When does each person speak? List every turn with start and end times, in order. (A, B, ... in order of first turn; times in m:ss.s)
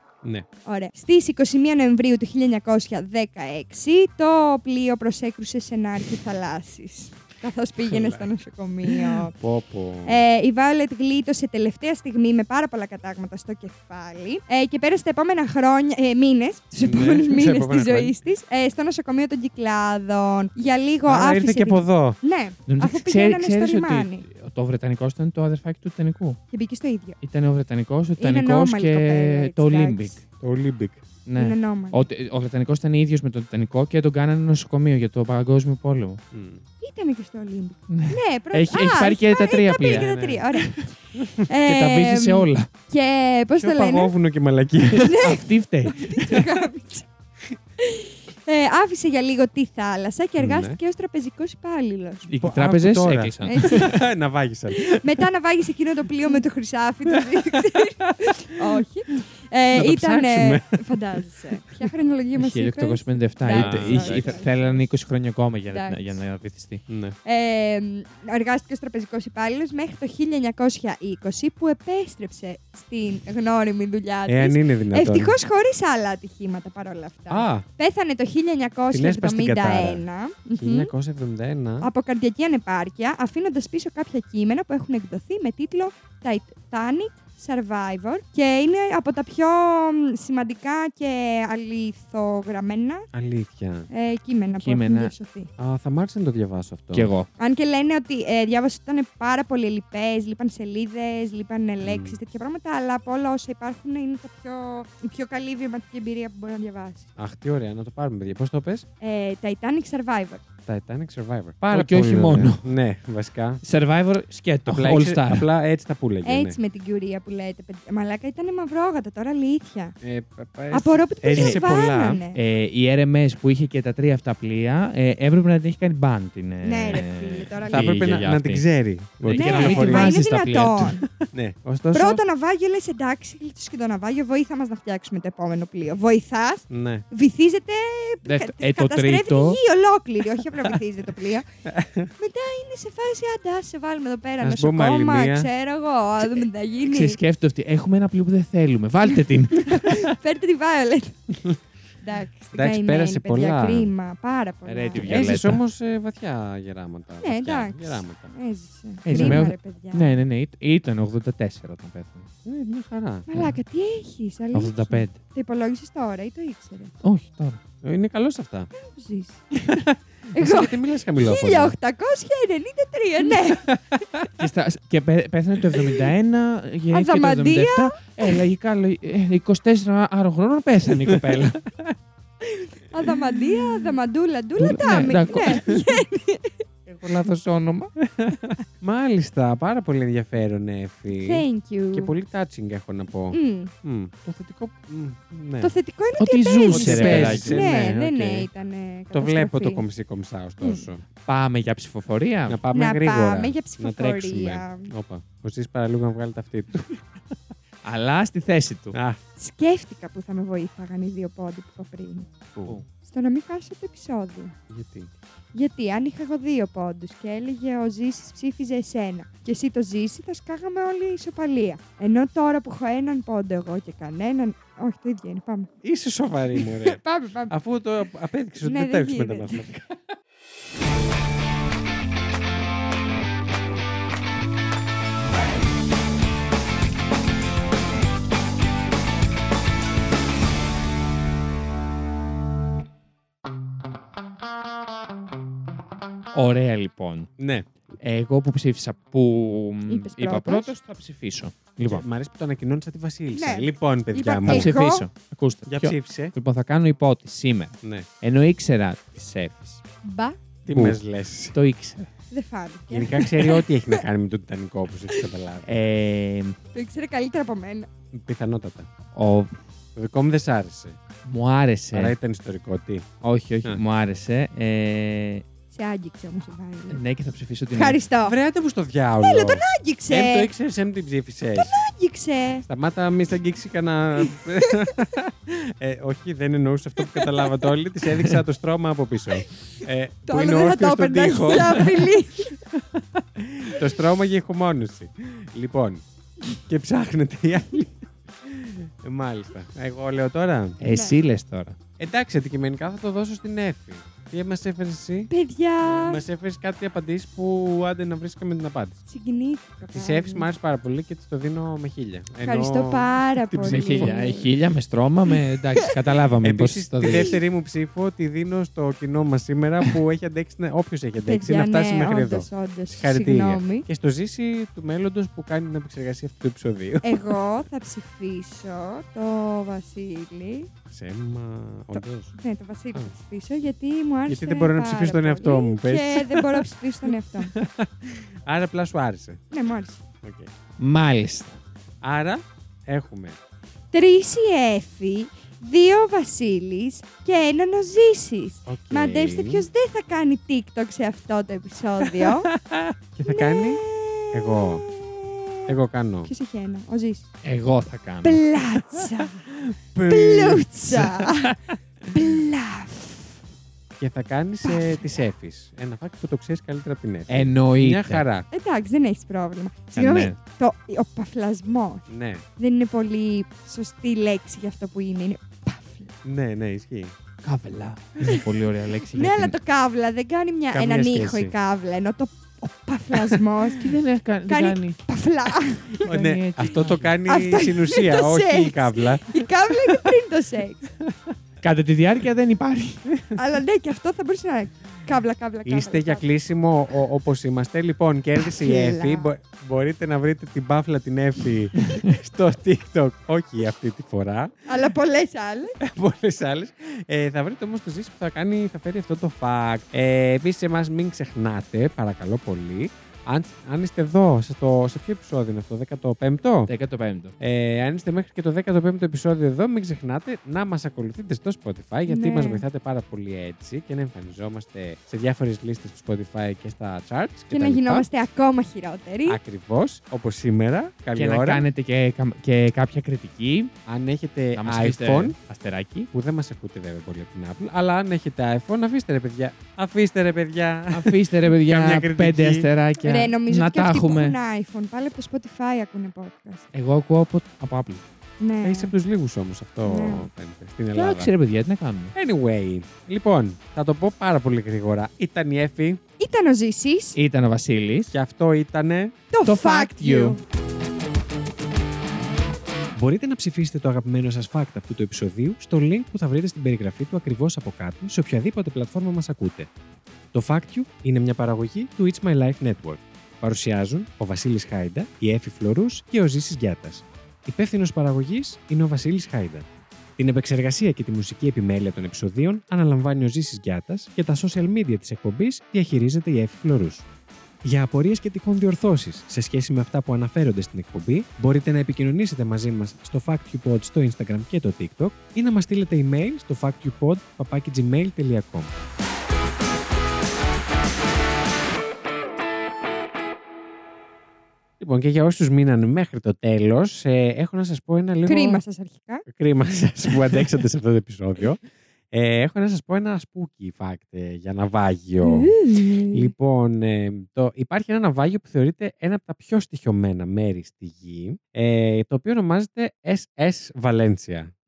0:00.6-0:09.4 A
0:07.8-0:08.3 B
0:08.9-0:10.2 B
0:10.1-0:24.2 A
0:16.8-0:18.2 B
0:21.1-0:22.2 B
0:22.7-0:26.4 C
0:26.5-0:27.2 A
0:27.2-0:30.2 C
0:28.2-0:30.2 A
0:30.4-0:31.0 B
0:31.3-0:36.2 C
0:31.4-0:32.1 A
0:36.3-0:36.6 B
0:36.8-0:44.1 A
0:37.9-0:40.1 C
0:39.9-0:40.5 B
0:41.6-0:42.7 C
0:43.6-0:45.3 B
0:45.0-0:47.1 A
0:45.1-0:46.0 C
0:46.1-0:46.5 B
0:47.8-0:52.3 A
0:50.4-0:50.8 B
0:52.3-0:54.0 C
0:52.4-0:55.2 B
0:53.5-0:54.0 A
0:54.7-1:04.8 A
0:57.1-0:58.2 B
0:59.8-1:01.2 B
1:02.4-1:06.8 C
1:03.5-1:04.4 B
1:05.7-1:06.2 A
1:06.9-1:07.2 B
1:07.2-1:20.9 A
1:14.3-1:15.4 B
1:17.3-1:17.6 B
1:18.9-1:20.0 B
1:20.5-1:21.9 B
1:21.8-1:33.1 A
1:33.1-1:33.9 B
1:33.9-1:35.5 A
1:34.6-1:35.1 C
1:35.6-1:37.1 B
1:36.9-1:37.3 C
1:37.4-1:47.1 A
1:41.8-1:42.2 B
1:47.2-1:48.9 B
1:49.0-1:50.4 A
1:50.7-1:53.6 B
1:51.7-1:52.7 C
1:53.6-1:55.5 C
1:54.7-1:56.6 B
1:56.2-2:00.0 A
2:00.0-2:02.2 B
2:00.7-2:02.4 A
2:01.4-2:01.6 C
2:02.3-2:08.6 C
2:06.6-2:08.0 A
2:07.7-2:10.2 B
2:09.2-2:11.0 C
2:09.3-2:11.1 A
2:11.2-2:12.2 B
2:11.9-2:21.5 A
2:16.7-2:17.0 B
2:18.2-2:19.6 C
2:21.7-2:22.1 B
2:22.2-2:27.2 A
2:24.4-2:25.5 B
2:26.9-2:30.2 C
2:29.6-2:31.2 A
2:32.0-2:35.4 A
2:32.5-2:33.9 B
2:34.7-2:35.6 C
2:35.0-2:38.3 B
2:37.2-2:40.1 A
2:39.0-2:42.3 C
2:39.1-2:39.5 B
2:42.4-2:43.3 B
2:43.3-2:46.9 A
2:44.5-2:45.2 C
2:47.0-2:47.6 C
2:47.8-2:48.7 B
2:48.7-2:49.4 A
2:49.6-2:51.8 B
2:50.3-2:53.7 A
2:53.6-2:54.3 B
2:54.4-3:01.6 C
2:56.9-2:58.0 A
3:01.1-3:01.9 B
3:02.9-3:06.6 A
3:04.6-3:05.7 C
3:05.4-3:05.8 B
3:06.9-3:07.9 C
3:08.0-3:15.8 B
3:11.1-3:12.1 A
3:13.3-3:13.7 A
3:15.6-3:19.8 A
3:16.2-3:17.6 C
3:16.7-3:18.5 B
3:19.1-3:21.0 B
3:21.2-3:22.6 C
3:22.5-3:27.0 B
3:22.7-3:24.9 A
3:27.8-3:29.0 C
3:28.9-3:29.2 B
3:29.4-3:32.3 A
3:32.6-3:32.8 C
3:33.0-3:34.6 A
3:34.7-3:35.1 B
3:35.6-3:45.7 A
3:45.8-3:49.8 B
3:46.6-3:47.6 A
3:48.6-3:49.6 A
4:06.3-4:07.3 C
4:07.4-4:07.7 B
4:08.0-4:12.1 C
4:09.9-4:10.7 A
4:11.9-4:14.7 B
4:13.3-4:15.1 A
4:14.5-4:19.8 C
4:15.7-4:16.3 B
4:20.0-4:20.4 A
4:20.6-4:21.6 B
4:20.7-4:21.0 C
4:21.5-4:22.1 C
4:22.3-4:24.0 A
4:22.9-4:25.7 B
4:25.6-4:26.6 C
4:26.7-4:27.9 A
4:28.1-4:28.9 B
4:29.1-4:29.6 C
4:30.0-4:31.0 B
4:31.2-4:32.2 C
4:31.9-4:33.0 B
4:33.2-4:35.4 C
4:35.7-4:37.0 A
4:36.9-4:38.0 C
4:37.7-4:38.4 A
4:38.2-4:41.8 B
4:39.2-4:40.5 A
4:41.6-4:42.6 A
4:42.6-4:52.1 B
4:44.2-4:45.1 A
4:47.0-4:47.6 A
4:48.1-4:48.4 C
4:50.2-4:52.6 A
4:53.4-4:56.0 B
4:56.7-5:00.8 B
5:00.8-5:01.8 C
5:00.9-5:01.2 A
5:02.0-5:05.3 B
5:05.3-5:06.2 A
5:05.8-5:09.0 B
5:09.1-5:10.5 A
5:10.0-5:14.1 B
5:12.4-5:14.5 A
5:13.7-5:17.4 C
5:16.4-5:27.4 B
5:21.2-5:23.9 A
5:27.0-5:30.7 A
5:30.9-5:32.3 B
5:31.9-5:37.5 A
5:34.3-5:36.7 B
5:37.4-5:39.4 B
5:39.5-5:40.0 A
5:40.2-5:40.5 B
5:40.8-5:41.6 C
5:42.0-5:43.4 B
5:43.9-5:52.5 A
5:48.7-5:49.7 B
5:52.8-5:54.9 B
5:53.3-5:55.7 A
5:55.7-5:56.3 B
5:56.2-5:57.3 A
5:57.4-5:58.4 C
5:58.2-5:59.4 A
6:00.0-6:01.1 B
6:00.1-6:01.6 A
6:00.9-6:01.5 C
6:02.1-6:03.3 A
6:04.0-6:08.5 B
6:04.6-6:05.2 A
6:07.3-6:08.2 C
6:08.5-6:16.1 A
6:10.0-6:10.4 C
6:12.1-6:12.4 B
6:16.2-6:17.1 B
6:17.4-6:19.6 C
6:19.1-6:23.9 A
6:20.7-6:21.5 B
6:23.8-6:25.0 C
6:24.5-6:26.1 A
6:26.0-6:27.2 C
6:26.0-6:30.1 B
6:27.2-6:30.9 A
6:31.6-6:33.0 C
6:33.1-6:33.4 B
6:33.4-6:36.2 A
6:35.6-6:44.5 B
6:38.4-6:39.3 A
6:44.7-6:45.8 A
6:45.8-6:56.7 B
6:56.7-6:57.3 C
6:57.4-7:08.1 B
7:02.1-7:02.6 A
7:07.5-7:09.4 A
7:09.3-7:11.6 B
7:11.2-7:13.7 C
7:13.9-7:15.4 B
7:14.5-7:16.1 C
7:16.1-7:22.7 B
7:20.9-7:24.4 C
7:23.0-7:26.7 A
7:26.7-7:28.0 C
7:28.4-7:28.9 A
7:28.6-7:31.3 B
7:29.9-7:30.3 A
7:30.9-7:32.2 C
7:32.2-7:36.0 B
7:36.2-7:37.2 A
7:37.2-7:38.2 C
7:38.1-7:39.2 B
7:39.3-7:40.4 A
7:39.5-7:40.4 C
7:43.0-7:49.7 B
7:50.3-7:59.7 B
8:00.2-8:07.0 B
8:07.6-8:18.8 B
8:24.8-8:28.6 B
8:28.3-8:29.2 A
8:29.3-8:31.6 B
8:32.1-8:35.5 B
8:35.2-8:36.3 A
8:36.1-8:44.5 B